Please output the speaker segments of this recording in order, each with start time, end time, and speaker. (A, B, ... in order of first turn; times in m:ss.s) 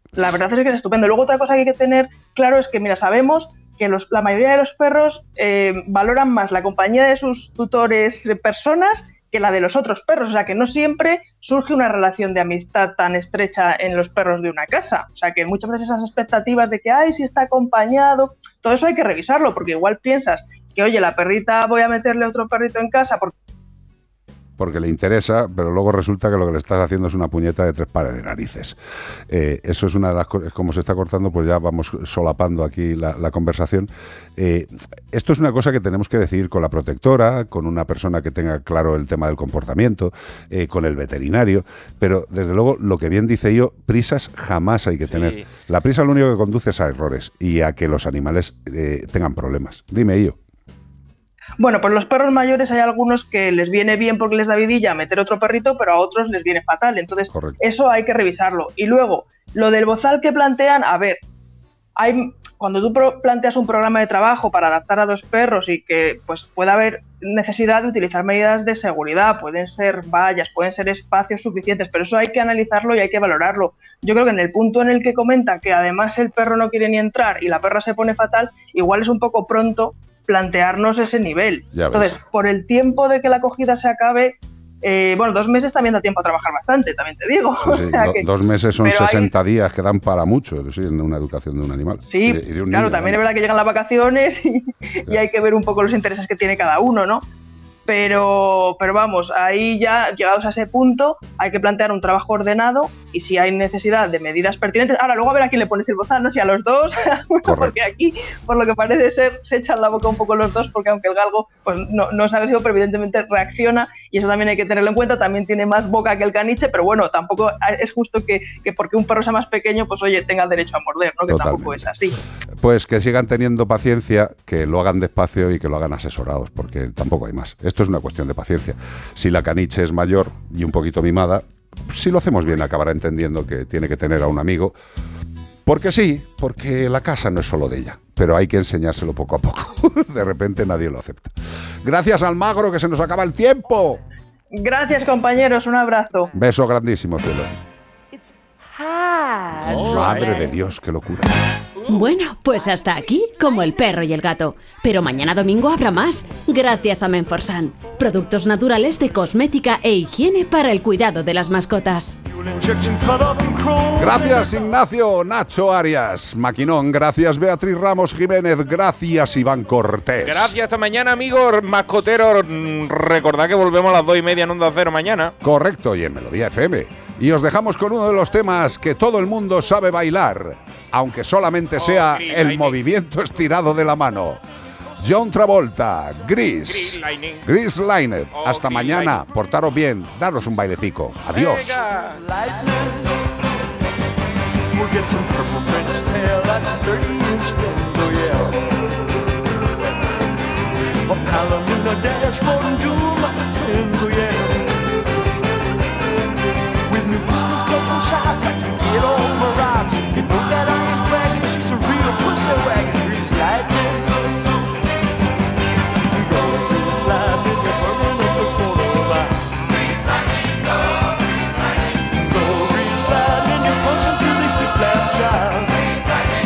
0:00.2-0:23.3 A
0:24.6-0:28.8 B
0:29.3-0:50.4 B
0:45.1-0:45.5 C
0:51.6-1:01.2 A
0:57.3-0:57.6 B
1:02.0-1:28.3 A
1:21.7-1:22.2 B
1:27.6-1:33.2 B
1:28.8-1:29.3 A
1:32.1-1:37.2 A
1:37.9-2:02.2 A
1:47.4-1:47.8 B
2:01.3-2:01.9 B
2:02.6-2:14.8 B
2:15.6-2:24.0 B
2:24.6-2:26.3 A
2:26.3-2:27.5 B
2:29.6-2:31.4 B
2:31.9-2:42.2 D
2:42.3-2:44.6 E
2:44.0-2:50.6 B
2:50.2-2:55.4 C
2:55.4-3:04.4 B
3:01.8-3:02.8 C
3:05.0-3:11.8 B
3:06.6-3:07.4 C
3:08.3-3:09.2 C
3:11.3-3:12.2 C
3:12.2-3:13.2 E
3:14.7-3:18.6 E
3:21.1-3:24.7 E
3:26.9-3:34.3 E
3:36.1-3:39.4 E
3:42.1-3:45.9 E